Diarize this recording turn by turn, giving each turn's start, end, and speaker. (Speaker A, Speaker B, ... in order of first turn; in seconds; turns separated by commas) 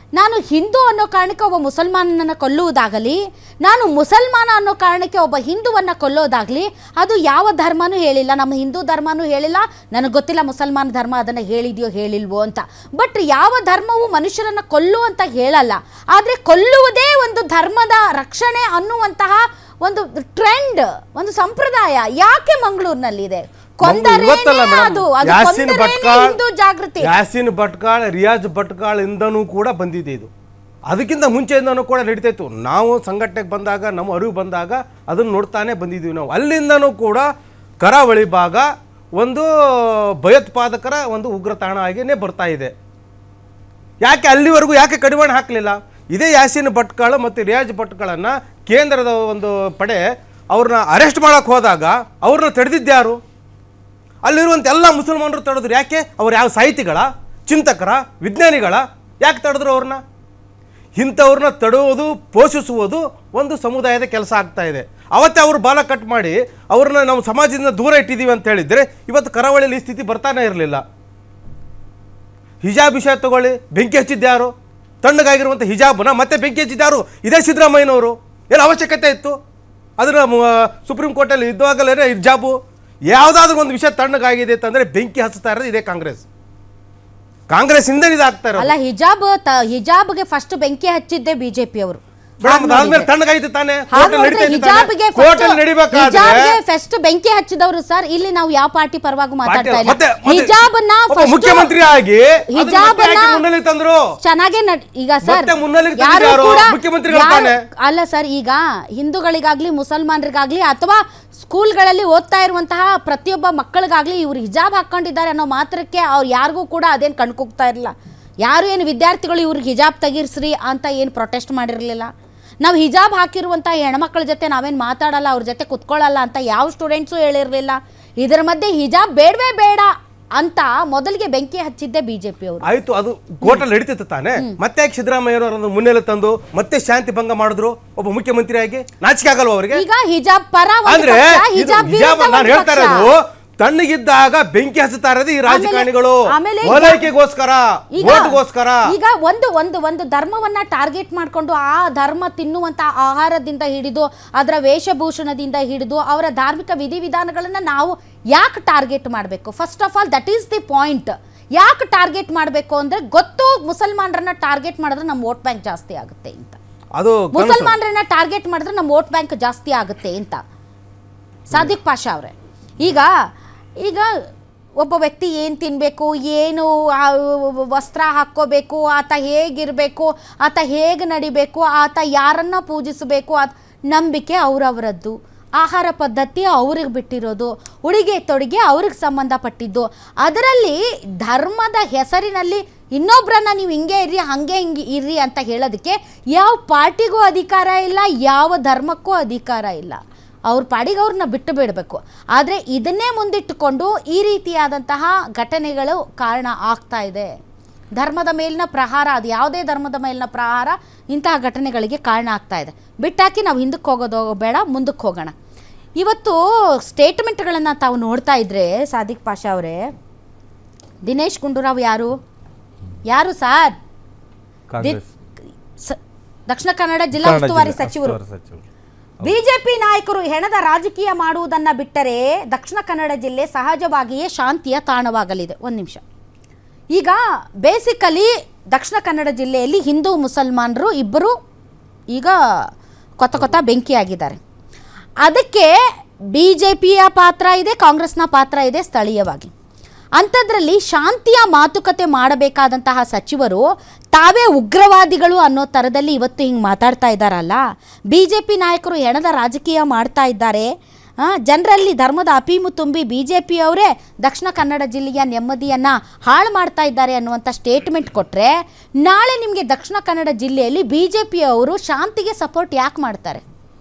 Speaker A: 0.1-27.1, Speaker B: 23.8-26.4, Speaker B: 27.0-30.3, Speaker B: 30.9-37.3, Speaker B: 37.8-42.7, Speaker B: 44.0-53.2, Speaker B: 54.2-60.0, Speaker B: 61.0-70.8, Speaker B: 72.6-74.5, Speaker B: 75.0-79.3, Speaker B: 80.0-82.5, Speaker B: 83.1-86.2, Speaker B: 87.5-88.7, Speaker A: 88.6-93.1, Speaker B: 92.4-96.5, Speaker A: 93.9-101.7, Speaker B: 99.5-104.0, Speaker A: 102.5-103.4, Speaker A: 104.2-122.1, Speaker B: 105.2-107.6, Speaker A: 122.6-132.6, Speaker B: 132.6-139.8, Speaker A: 139.7-143.1, Speaker B: 140.9-148.9, Speaker A: 145.5-147.0, Speaker A: 148.0-166.6, Speaker B: 167.0-167.8, Speaker A: 167.3-170.4, Speaker A: 171.5-173.1, Speaker A: 173.8-174.1, Speaker A: 174.8-207.3, Speaker A: 208.0-215.3, Speaker A: 216.0-219.9, Speaker A: 221.0-222.1, Speaker A: 223.1-223.8, Speaker B: 224.7-225.1, Speaker A: 225.7-228.2, Speaker B: 227.2-228.6, Speaker A: 229.2-236.0, Speaker A: 236.9-241.3, Speaker A: 242.1-242.7, Speaker A: 243.2-244.4, Speaker A: 245.2-245.8, Speaker A: 246.3-249.5, Speaker A: 250.2-273.4